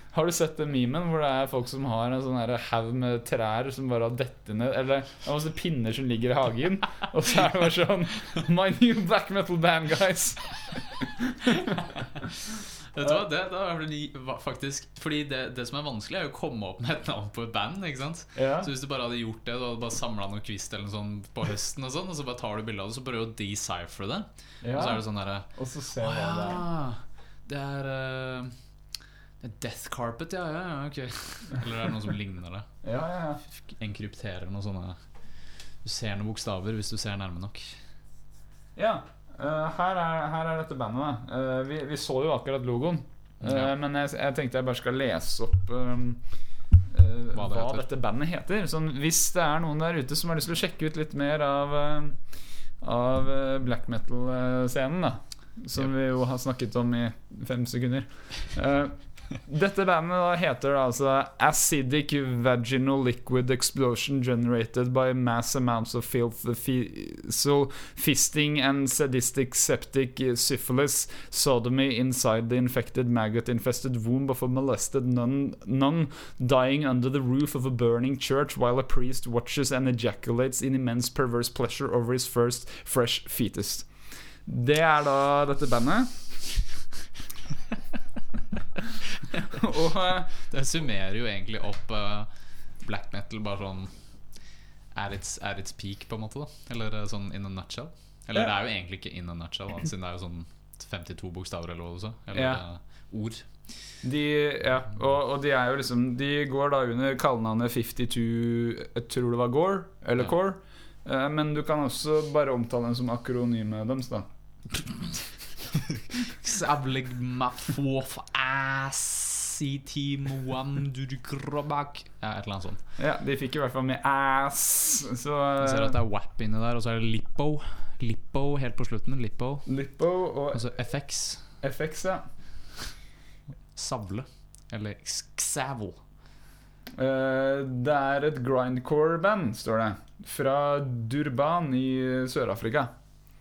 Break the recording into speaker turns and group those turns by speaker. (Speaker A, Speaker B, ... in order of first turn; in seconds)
Speaker A: 0.1-11.9, 18.3-18.7, 24.6-26.6, 32.8-33.4, 38.8-46.2, 46.9-52.2, 52.8-83.9, 84.5-86.4, 89.5-90.3, 102.3-102.6, 104.0-114.3, 123.0-126.0, 129.7-130.6, 131.6-132.3, 136.9-142.9
Speaker B: 11.7-12.2, 12.8-28.5, 29.4-32.7, 33.6-35.0, 35.8-37.8, 43.4-43.7, 47.3-47.8, 89.1-89.5, 90.3-92.3, 92.8-93.9, 94.9-103.5, 115.8-122.8, 125.6-129.7, 130.5-131.4, 133.7-136.0